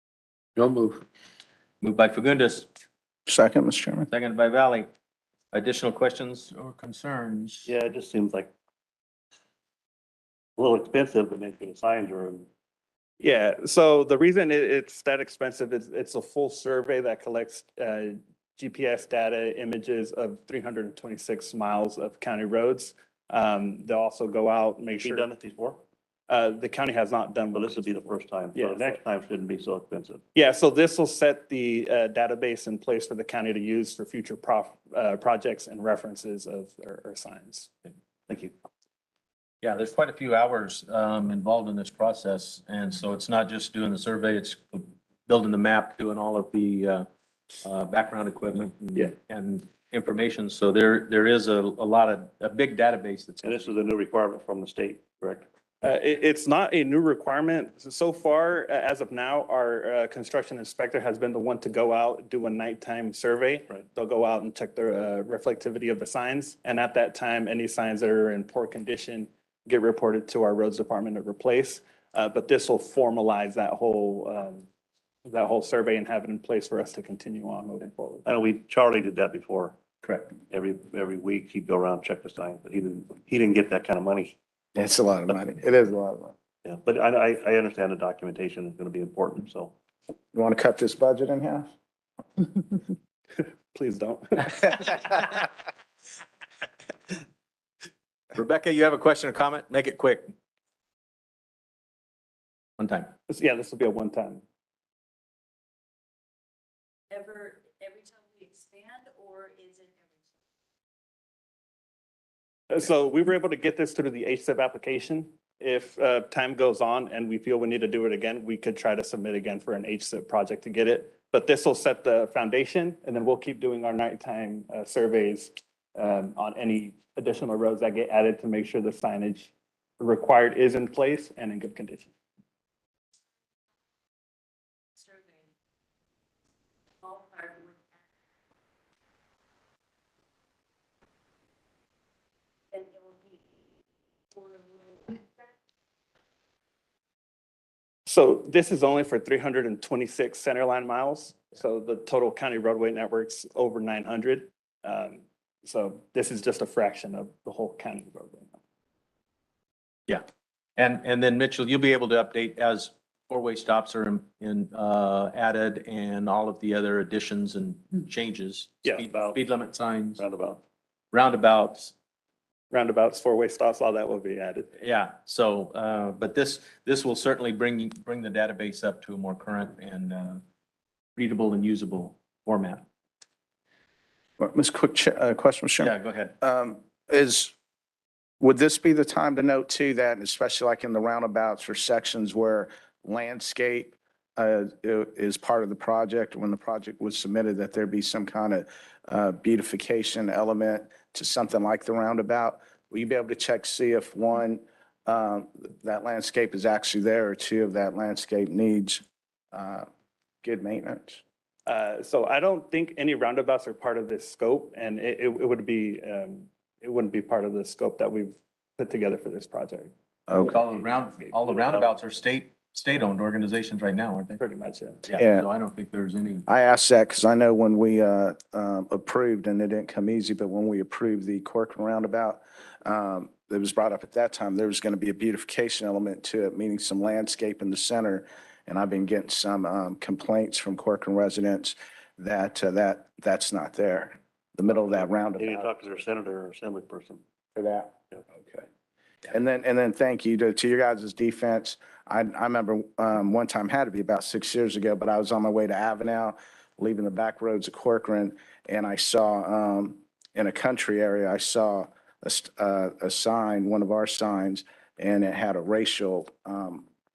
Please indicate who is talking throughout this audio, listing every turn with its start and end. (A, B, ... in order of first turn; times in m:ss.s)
0:01.8-0:02.7 A
0:03.3-0:04.1 B
0:04.1-0:04.9 A
0:05.5-0:07.7 A
0:07.6-0:08.5 C
0:10.6-0:12.5 C
0:13.2-0:25.3 D
0:25.0-0:25.8 C
0:26.3-0:28.0 D
0:27.5-0:30.2 C
0:28.5-0:29.0 D
0:30.3-0:37.7 D
0:38.3-0:38.5 C
0:39.6-0:47.0 A
0:47.6-0:53.7 A
0:53.4-0:55.4 C
0:55.8-1:14.6 D
1:15.2-1:18.2 D
1:18.2-1:19.8 C
1:20.0-1:20.3 A
1:20.5-1:24.3 C
1:24.7-1:26.3 B
1:26.6-1:29.7 C
1:30.3-1:31.7 B
1:33.7-1:35.3 D
1:38.3-1:40.3 A
1:42.8-1:43.1 A
1:43.3-1:44.4 D
1:47.1-1:50.1 E
1:52.7-2:12.1 D
2:15.0-2:15.5 E
2:17.0-2:17.8 E
2:22.7-2:23.4 E
2:24.3-2:25.3 E
2:28.0-2:38.6 D
2:40.8-2:50.2 A
2:49.0-2:49.4 C
2:50.2-2:50.6 C
2:51.1-2:51.9 A
2:52.7-2:54.7 D
2:54.8-3:00.4 A
3:01.2-3:02.8 A
3:04.4-3:07.5 B
3:05.8-3:06.3 A
3:08.4-3:29.9 B
3:30.4-3:31.2 B
3:31.6-3:39.9 D
3:40.3-3:40.6 B
3:40.4-3:44.4 A
3:41.1-3:42.0 D
3:44.4-3:45.0 D
3:45.0-3:46.4 A
3:45.2-3:45.4 B
3:46.5-4:05.9 B
4:05.4-4:07.2 C
4:07.5-4:08.6 B
4:09.3-4:26.8 B